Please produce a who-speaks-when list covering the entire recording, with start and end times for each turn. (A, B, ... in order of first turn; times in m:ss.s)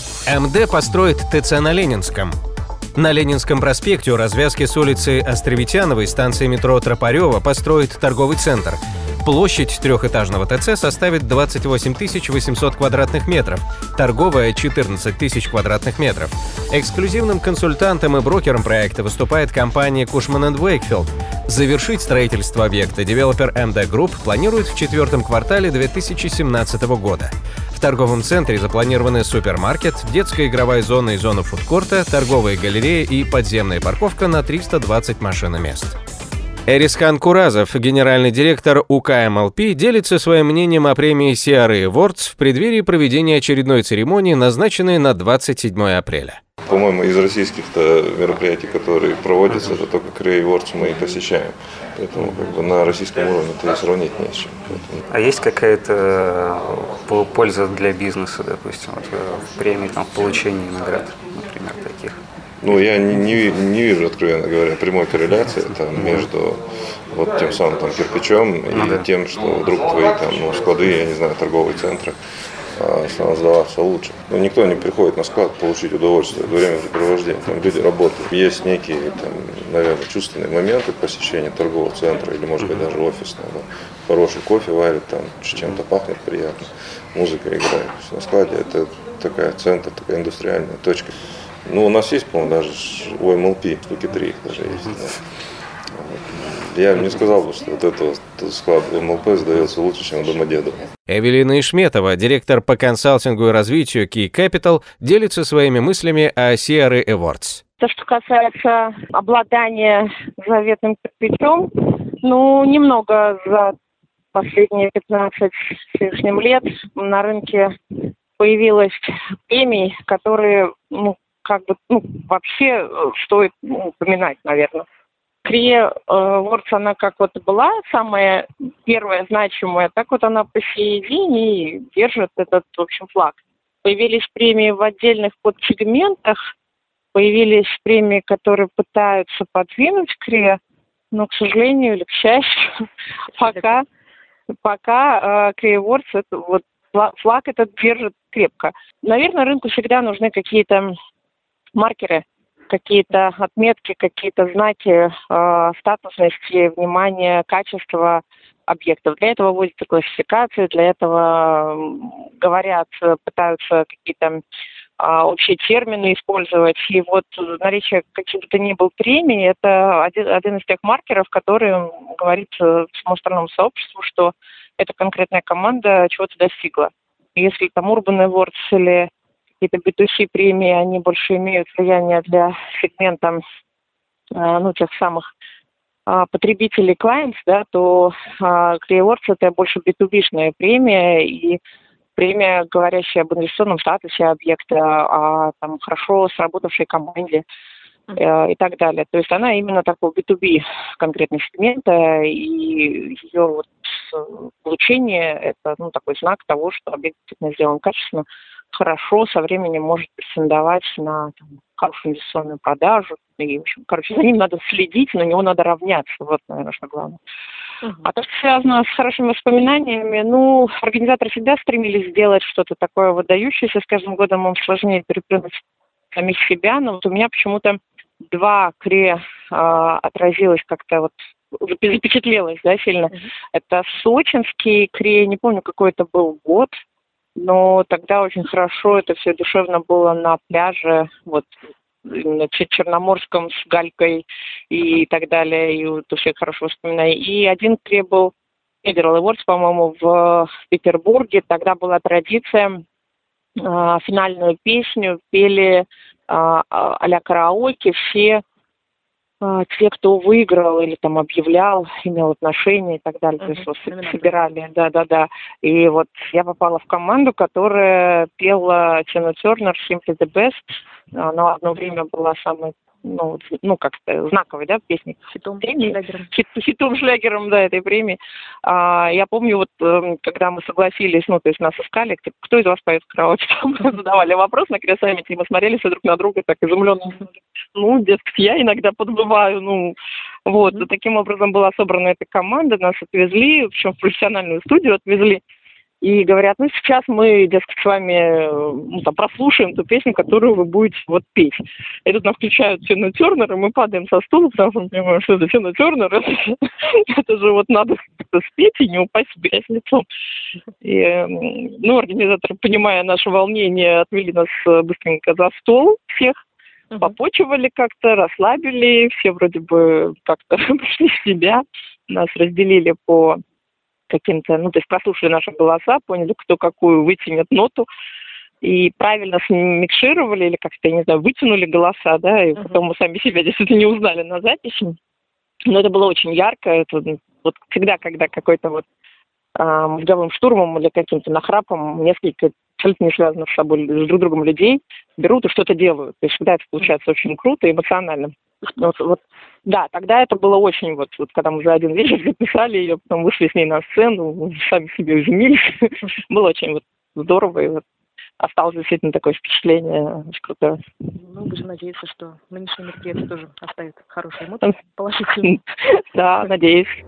0:00.3-0:02.4 A
0:03.0-0:36.0 A
0:36.7-0:46.4 A
0:46.7-0:55.0 B
0:49.5-0:49.8 C
0:55.1-1:02.2 C
1:02.6-1:12.2 B
1:06.0-1:06.2 C
1:08.7-1:09.1 C
1:12.7-1:31.1 B
1:31.7-1:35.2 B
1:36.0-1:40.9 B
1:41.1-1:47.6 A
1:47.8-1:53.7 D
1:54.3-1:57.7 D
1:58.4-2:04.9 D
2:05.4-2:16.4 D
2:17.1-2:20.6 D
2:21.1-2:22.7 D
2:23.4-2:23.8 D
2:24.6-2:30.9 D
2:31.8-2:44.4 D
2:45.0-2:59.1 D
2:59.6-3:03.4 D
3:04.3-3:05.2 D
3:06.1-3:11.6 D
3:12.2-3:17.4 D
3:18.2-3:37.2 D
3:38.0-3:45.6 D
3:46.1-3:47.8 D
3:48.3-3:56.7 D
3:57.4-4:01.5 D
4:02.1-4:08.3 D
4:08.8-4:12.8 D
4:13.6-4:18.4 D
4:19.4-4:30.6 D
4:23.4-4:24.4 E
4:31.1-4:55.4 D
4:35.3-4:36.3 E
4:56.0-5:10.0 D
5:10.8-5:16.4 D
5:17.0-5:23.4 D
5:24.1-5:27.9 D
5:28.6-5:35.0 D
5:35.7-5:38.8 D
5:39.6-5:57.8 D
5:58.4-6:00.8 D
6:01.2-6:05.6 E
6:05.5-6:06.9 D